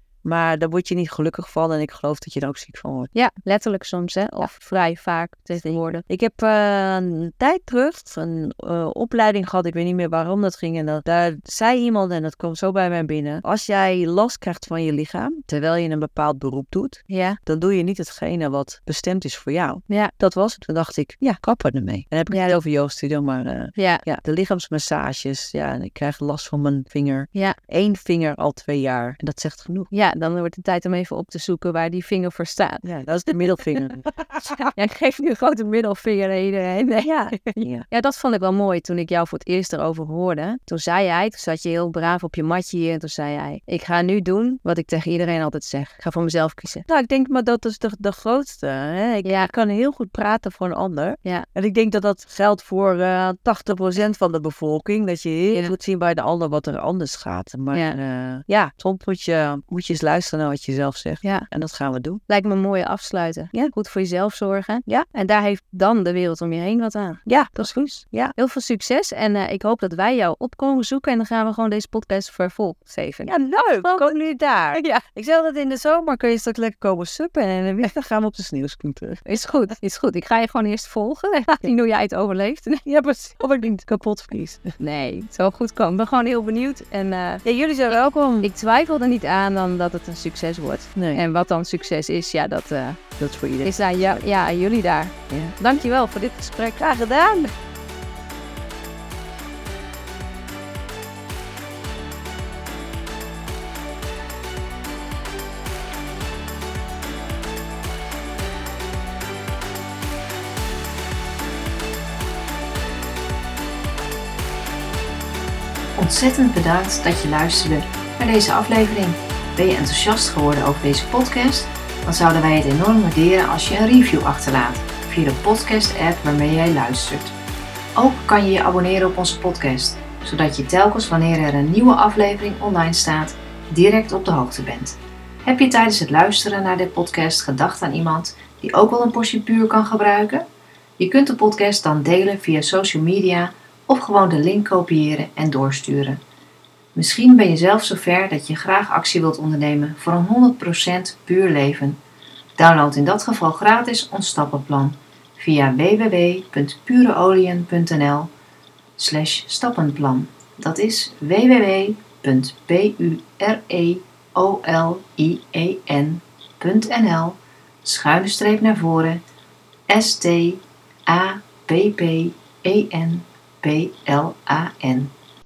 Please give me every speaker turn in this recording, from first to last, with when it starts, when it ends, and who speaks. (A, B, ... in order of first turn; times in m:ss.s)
0:00.2-0:03.1 A
0:03.1-0:06.0 B
0:05.6-0:29.9 A
0:17.1-0:17.4 B
0:22.3-0:22.6 B
0:23.8-0:24.0 B
0:29.9-0:33.7 B
0:32.8-0:34.7 A
0:34.6-0:46.8 B
0:37.0-0:37.8 A
0:46.9-1:02.2 A
0:57.7-0:58.0 B
1:02.3-1:07.2 B
1:07.2-1:08.3 A
1:08.4-1:13.3 B
1:13.2-1:19.3 A
1:14.7-1:15.0 B
1:19.3-1:22.8 B
1:22.8-1:24.7 A
1:24.8-1:33.0 B
1:27.4-1:28.5 A
1:31.0-1:31.2 A
1:33.2-1:34.2 A
1:33.6-1:36.8 B
1:35.3-1:35.5 A
1:36.7-1:37.5 A
1:56.0-2:07.3 C
2:08.0-2:20.4 C
2:21.0-2:26.2 C
2:26.9-2:32.0 C
2:32.6-2:38.3 C
2:39.0-2:49.2 C
2:49.9-2:55.1 C